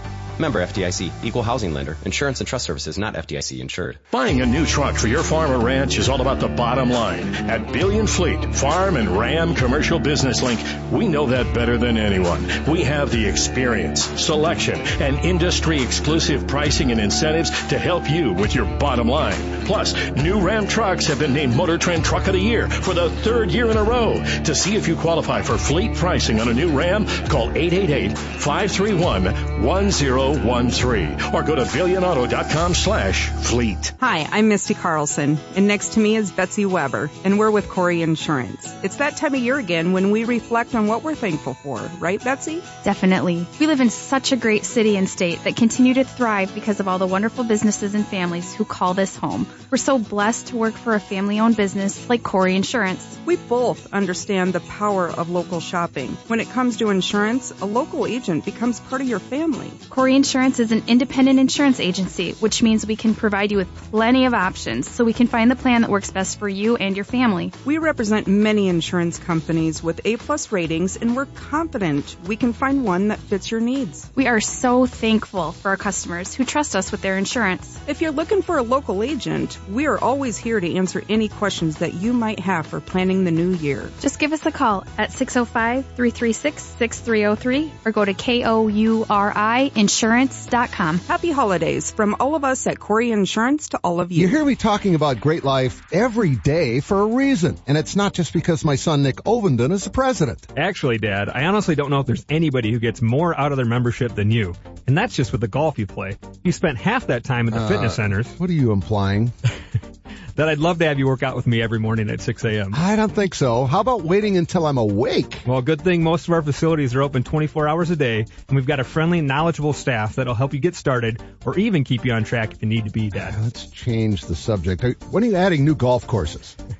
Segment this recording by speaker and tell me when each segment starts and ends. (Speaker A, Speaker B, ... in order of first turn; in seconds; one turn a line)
Speaker A: 0.4-4.0
Speaker B: 4.1-33.9
Speaker C: 34.0-42.7
Speaker D: 42.8-53.2
Speaker C: 53.2-59.8
Speaker D: 59.9-67.5
Speaker C: 67.6-74.1
Speaker D: 74.2-77.8
Speaker C: 77.9-84.0
Speaker D: 84.0-91.0
Speaker C: 91.1-94.4
Speaker E: 94.2-100.5
Speaker F: 100.6-108.3
Speaker E: 107.5-109.3
Speaker F: 110.4-112.8
Speaker E: 112.7-115.4
Speaker F: 115.5-123.4
Speaker E: 123.2-126.6